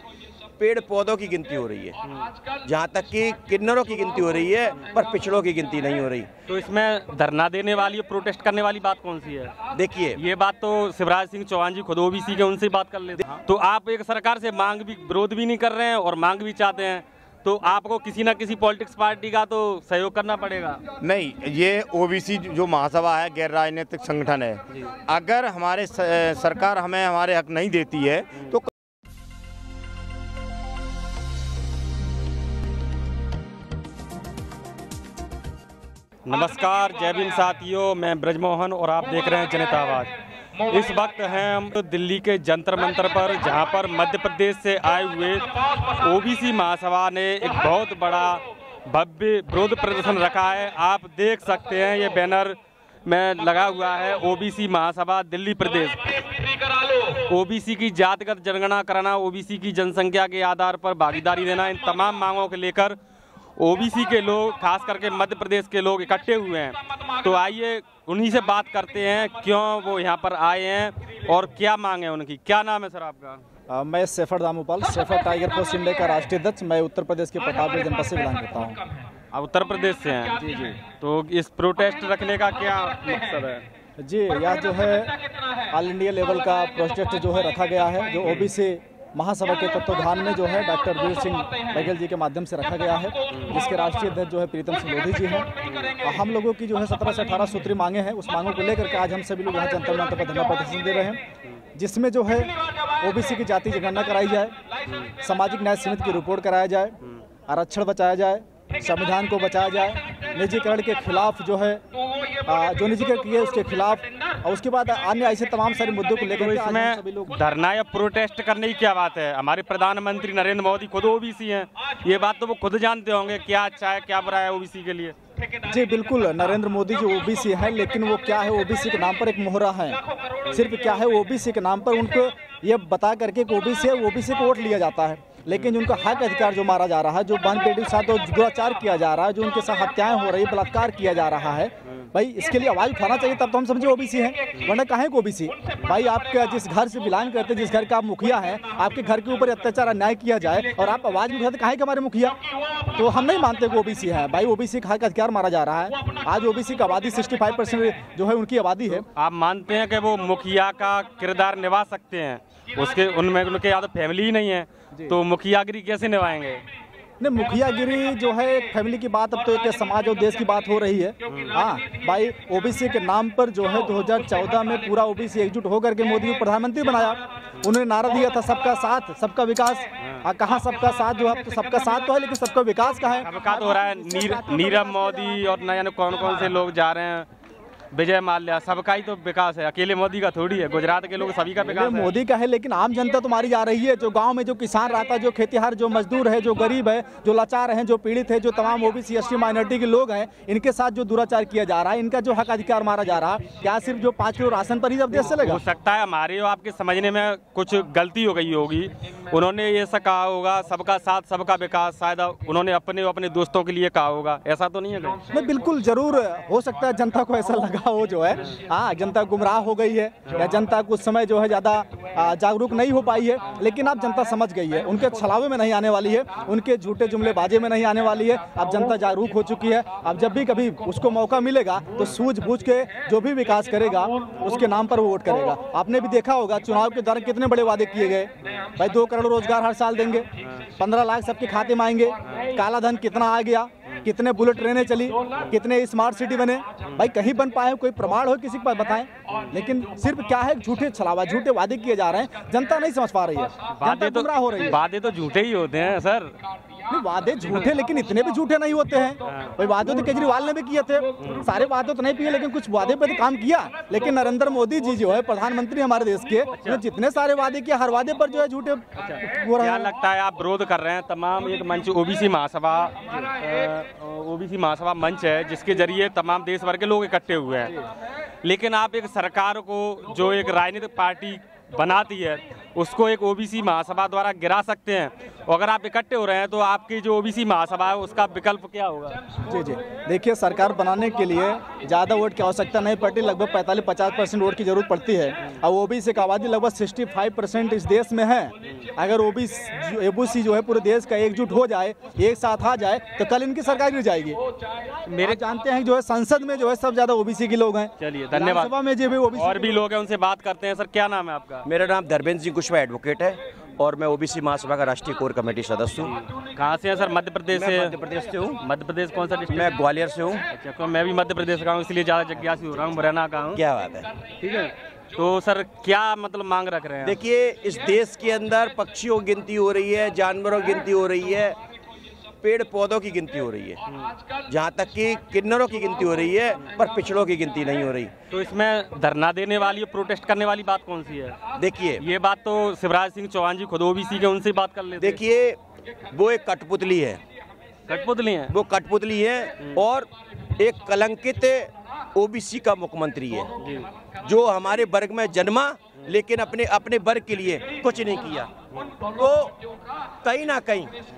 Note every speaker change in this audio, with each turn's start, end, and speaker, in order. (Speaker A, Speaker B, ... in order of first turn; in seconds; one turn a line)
Speaker A: 0.6-2.0
Speaker A: 2.6-6.3
Speaker B: 6.5-9.6
Speaker A: 9.7-10.2
Speaker B: 10.2-20.8
Speaker C: 21.0-28.7
Speaker B: 36.2-40.1
Speaker B: 40.6-56.3
Speaker B: 57.0-63.0
Speaker B: 63.6-73.4
Speaker D: 73.7-78.8
Speaker B: 79.3-83.6
Speaker D: 80.4-80.8
Speaker D: 84.0-85.2
Speaker D: 85.7-101.2
Speaker B: 88.2-88.5
Speaker B: 95.6-95.9
Speaker D: 101.7-104.5
Speaker B: 104.9-105.1
Speaker D: 105.2-107.0
Speaker D: 107.5-111.8
Speaker D: 112.4-117.4
Speaker B: 116.2-125.1
Speaker D: 125.7-130.0
Speaker D: 130.5-152.4
Speaker B: 135.5-135.8
Speaker D: 152.9-159.0
Speaker B: 158.9-166.6
Speaker D: 167.2-185.4
Speaker B: 171.3-171.6
Speaker B: 183.2-187.3
Speaker B: 187.9-192.1
Speaker D: 191.6-205.6
Speaker B: 205.1-215.2
Speaker D: 215.3-254.8
Speaker B: 240.4-240.7
Speaker B: 246.8-247.1
Speaker B: 249.3-249.6
Speaker B: 253.7-256.4
Speaker D: 256.9-269.9
Speaker B: 259.2-259.6
Speaker B: 261.2-261.4
Speaker B: 266.5-266.8
Speaker B: 268.9-277.8
Speaker B: 278.4-289.3
Speaker D: 289.4-304.4
Speaker B: 305.0-305.4
Speaker D: 305.2-309.8
Speaker B: 308.0-308.7
Speaker B: 309.3-311.6
Speaker A: 311.6-316.1
Speaker B: 316.1-318.0
Speaker A: 317.5-318.6
Speaker B: 318.6-319.8
Speaker A: 319.5-320.4
Speaker B: 320.5-323.6
Speaker A: 323.5-324.2
Speaker B: 324.4-327.2
Speaker A: 327.0-331.6
Speaker A: 332.4-333.8
Speaker A: 334.4-338.1
Speaker B: 338.3-341.4
Speaker A: 341.5-342.0
Speaker B: 342.0-345.2
Speaker A: 345.0-345.6
Speaker A: 346.1-347.2
Speaker B: 347.9-348.5
Speaker A: 348.5-353.5
Speaker B: 353.6-353.9
Speaker A: 354.2-359.6
Speaker A: 360.2-360.9